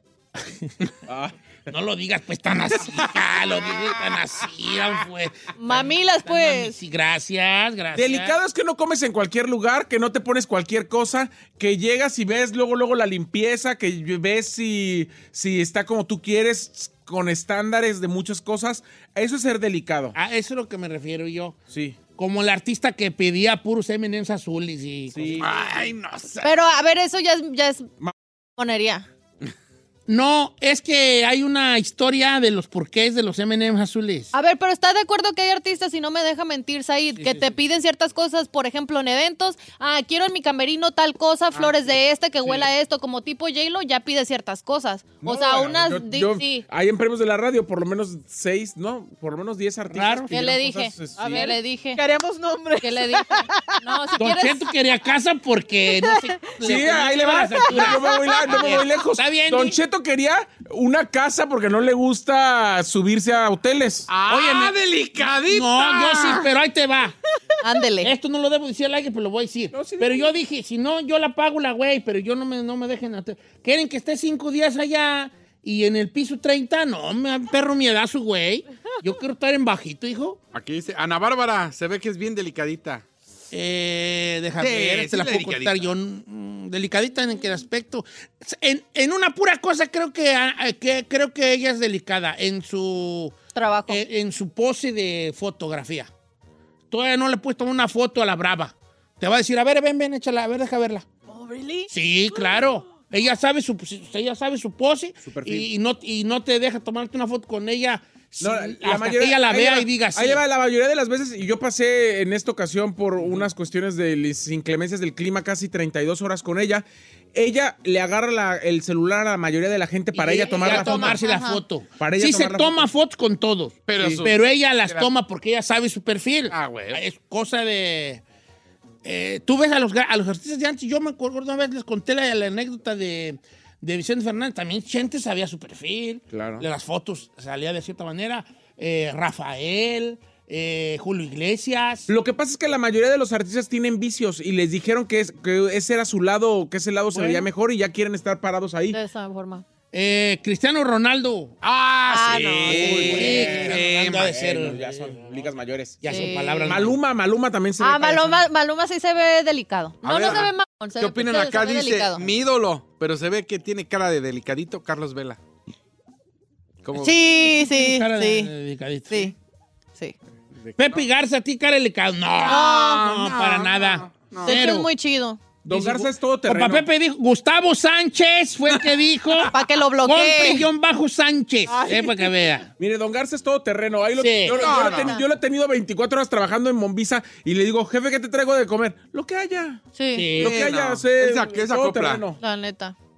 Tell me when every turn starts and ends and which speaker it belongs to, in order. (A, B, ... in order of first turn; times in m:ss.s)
0:00.4-0:00.9 A
0:01.1-0:01.7 B
0:01.7-0:08.4 A
0:05.6-0:06.8 C
0:07.9-0:20.2 B
0:20.1-0:21.6 A
0:21.7-0:22.0 B
0:22.2-0:25.4 A
0:25.1-0:25.7 B
0:25.4-0:26.5 D
0:26.4-0:27.9 C
0:28.6-0:29.1 C
0:30.1-0:34.3 A
0:34.3-0:46.6 C
0:37.2-0:37.5 A
0:45.2-0:51.4 B
0:49.9-0:50.4 A
0:50.3-0:52.0 C
0:51.2-0:53.8 E
0:52.8-0:54.6 C
0:54.2-0:59.8 A
0:55.9-0:56.6 E
0:56.6-1:04.1 B
0:57.6-0:58.8 E
1:04.1-1:06.5 D
1:04.3-1:04.8 A
1:05.5-1:07.1 A
1:07.6-1:08.1 C
1:08.0-1:20.4 A
1:09.7-1:10.4 B
1:20.5-1:23.0 D
1:23.5-1:33.4 A
1:24.6-1:25.9 D
1:33.6-1:34.0 C
1:33.9-1:36.1 A
1:36.9-1:41.1 A
1:41.4-1:41.9 C
1:41.9-1:50.4 A
1:45.2-1:45.7 B
1:48.4-2:01.2 B
1:53.2-1:53.5 A
2:00.1-2:08.2 A
2:00.4-2:01.6 C
2:02.0-2:02.9 B
2:03.9-2:05.1 D
2:04.0-2:04.2 B
2:06.5-2:07.0 D
2:09.0-2:22.1 A
2:16.3-2:16.6 B
2:22.1-2:29.0 B
2:27.1-2:27.5 A
2:28.9-2:29.6 C
2:29.9-2:31.6 A
2:31.6-2:34.4 D
2:32.1-2:33.4 C
2:32.7-2:35.4 A
2:32.7-2:38.4 B
2:36.0-2:37.0 A
2:36.1-2:36.8 C
2:37.8-2:42.3 C
2:40.0-2:45.4 D
2:46.8-2:47.2 D
2:47.0-2:48.5 C
2:47.4-2:49.4 A
2:50.6-2:51.1 D
2:50.8-2:54.9 A
2:52.4-2:54.7 D
2:52.4-2:53.1 C
2:54.4-2:55.4 C
2:55.6-2:56.9 B
2:55.7-3:02.7 A
2:59.5-3:00.7 C
3:01.7-3:02.5 E
3:02.8-3:09.8 B
3:04.2-3:04.8 A
3:04.5-3:05.2 D
3:04.8-3:05.2 C
3:10.0-3:10.4 C
3:10.2-3:10.7 A
3:10.4-3:12.4 B
3:10.4-3:12.3 D
3:12.4-3:13.0 C